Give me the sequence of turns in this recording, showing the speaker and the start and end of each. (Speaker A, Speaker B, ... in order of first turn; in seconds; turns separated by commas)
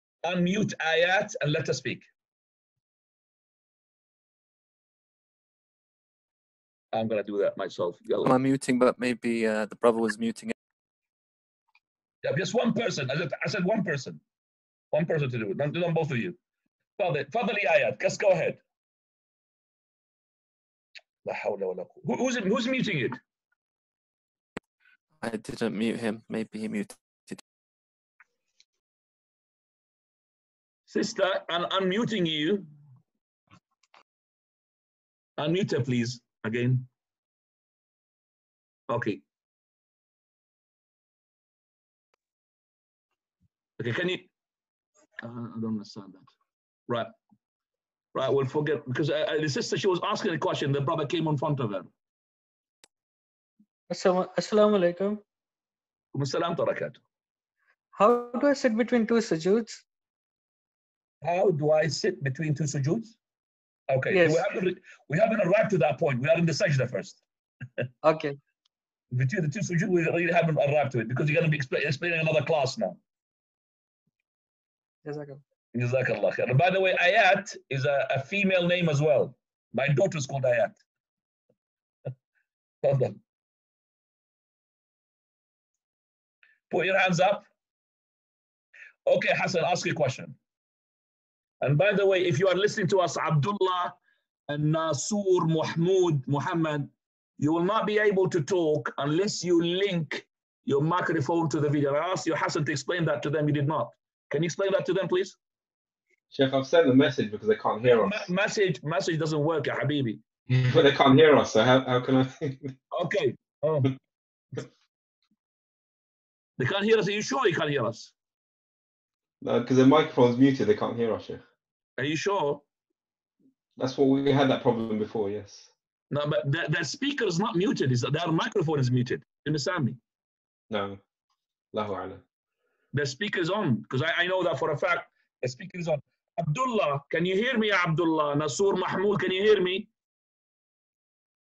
Speaker A: 0.2-2.1, Speaker A: 6.9-8.3, Speaker B: 8.2-10.5, Speaker A: 12.2-14.2, Speaker A: 14.9-16.4, Speaker A: 17.0-18.6, Speaker A: 21.2-23.2, Speaker B: 25.2-27.4, Speaker A: 30.9-32.7, Speaker A: 35.4-36.9, Speaker A: 38.9-39.2, Speaker A: 43.8-44.3, Speaker A: 45.2-46.3, Speaker A: 48.1-51.9, Speaker C: 53.9-55.2, Speaker A: 56.1-57.0, Speaker C: 57.9-59.8, Speaker A: 61.2-63.1, Speaker A: 63.9-67.2, Speaker C: 64.1-64.4, Speaker C: 68.0-68.4, Speaker A: 69.1-73.0, Speaker C: 75.0-75.4, Speaker A: 75.7-80.8, Speaker A: 82.8-83.2, Speaker A: 86.7-87.5, Speaker A: 89.0-90.3, Speaker A: 91.6-94.0, Speaker A: 94.5-105.4, Speaker D: 106.3-108.3, Speaker A: 107.8-110.2, Speaker D: 110.5-112.7, Speaker A: 112.9-113.9, Speaker A: 116.6-118.1, Speaker D: 119.4-121.4, Speaker A: 122.0-122.6, Speaker D: 123.8-125.7, Speaker A: 126.1-130.0, Speaker D: 130.7-131.0, Speaker D: 131.7-132.2, Speaker A: 132.9-139.9